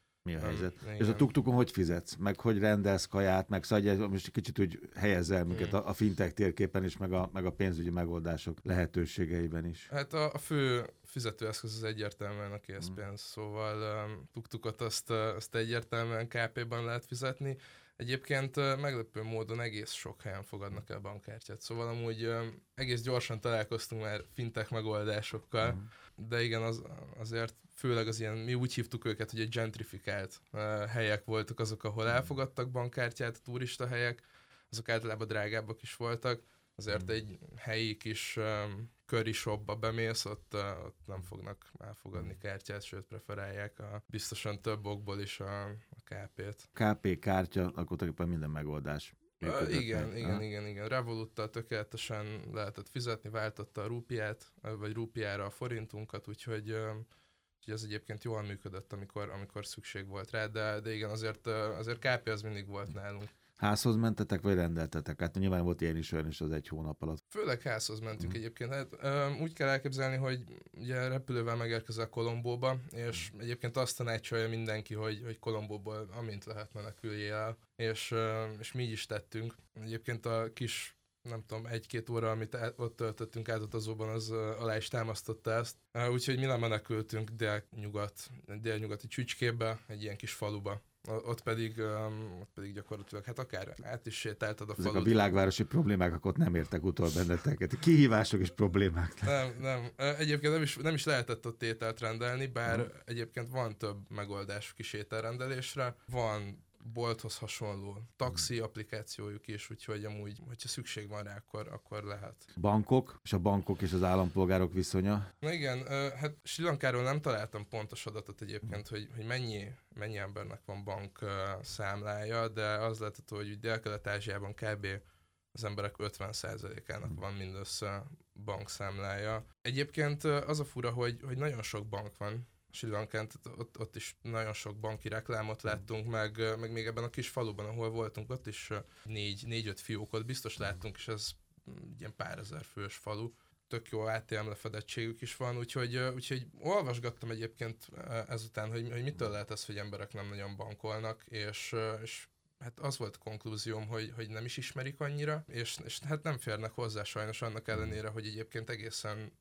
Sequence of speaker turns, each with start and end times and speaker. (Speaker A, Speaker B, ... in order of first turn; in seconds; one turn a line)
Speaker A: 0.3-9.9
Speaker B: 0.4-1.3
Speaker B: 5.5-5.8
Speaker B: 9.9-46.7
Speaker A: 25.6-25.9
Speaker A: 46.8-50.4
Speaker B: 49.4-57.1
Speaker B: 57.6-63.3
Speaker A: 63.6-67.2
Speaker B: 67.3-95.2
Speaker A: 94.8-99.5
Speaker B: 99.2-112.5
Speaker A: 112.6-115.3
Speaker B: 115.4-125.0
Speaker B: 125.5-159.3
Speaker A: 157.7-158.0